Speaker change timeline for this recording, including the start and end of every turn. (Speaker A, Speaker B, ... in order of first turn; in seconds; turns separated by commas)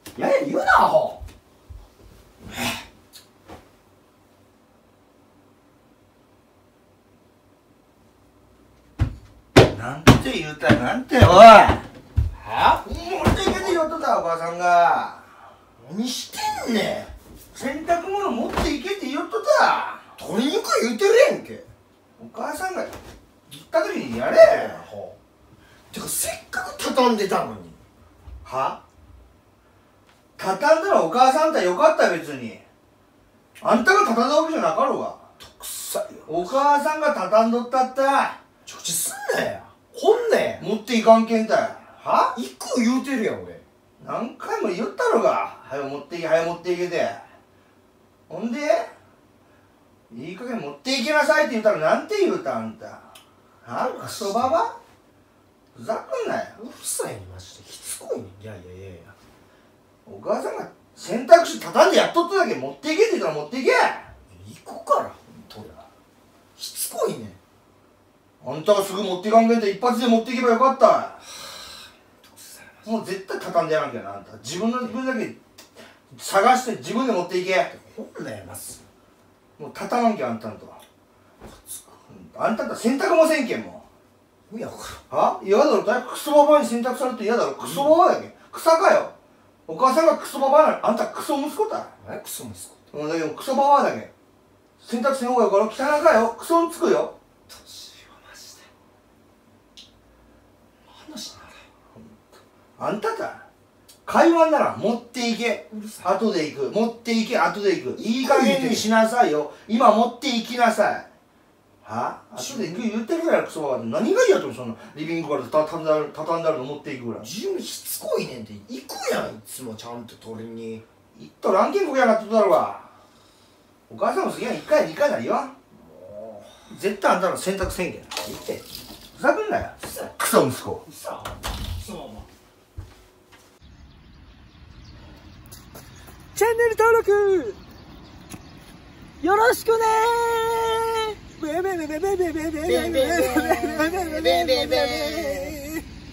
Speaker A: 0.2-1.2, Speaker B: 9.7-11.8, Speaker A: 12.4-12.8, Speaker B: 12.8-15.3, Speaker A: 13.4-13.8, Speaker A: 15.8-17.1, Speaker B: 17.5-20.1, Speaker A: 20.2-21.7, Speaker B: 22.2-22.9, Speaker B: 23.5-24.8, Speaker A: 24.4-25.2, Speaker A: 25.9-27.8, Speaker B: 28.4-28.8, Speaker B: 30.4-32.6, Speaker B: 33.6-35.2, Speaker A: 35.4-36.6, Speaker B: 36.3-38.4, Speaker A: 38.7-40.6, Speaker B: 40.6-42.4, Speaker A: 42.3-43.6, Speaker B: 44.0-47.2, Speaker B: 48.3-48.9, Speaker B: 50.1-53.1, Speaker B: 53.6-54.8, Speaker A: 53.8-54.6, Speaker B: 55.7-56.6, Speaker A: 56.6-59.1, Speaker B: 60.0-64.1, Speaker A: 64.3-65.8, Speaker A: 66.5-67.4, Speaker B: 68.4-71.2, Speaker A: 72.2-72.9, Speaker B: 72.8-75.4, Speaker B: 76.1-77.7, Speaker A: 77.7-78.8, Speaker B: 79.6-80.8, Speaker A: 81.5-82.0, Speaker B: 82.1-83.8, Speaker A: 84.5-85.0, Speaker B: 85.1-89.1, Speaker A: 87.6-87.9, Speaker B: 89.7-91.9, Speaker A: 92.0-92.8, Speaker B: 92.9-94.1, Speaker B: 94.8-97.1, Speaker A: 97.5-98.6, Speaker A: 100.9-101.6, Speaker B: 102.8-103.5, Speaker B: 104.0-111.1, Speaker A: 105.7-106.1, Speaker A: 108.0-108.9, Speaker B: 111.8-117.3, Speaker A: 112.4-112.9, Speaker A: 117.2-120.8, Speaker B: 121.2-122.9, Speaker B: 123.9-125.5, Speaker A: 125.8-126.5, Speaker B: 126.7-128.1, Speaker A: 128.2-128.7, Speaker B: 129.2-130.8, Speaker A: 129.8-130.1, Speaker A: 130.8-132.2, Speaker C: 136.3-137.5, Speaker A: 136.4-137.4, Speaker C: 139.2-139.8, Speaker A: 139.2-140.8, Speaker C: 141.4-145.5, Speaker A: 142.6-145.6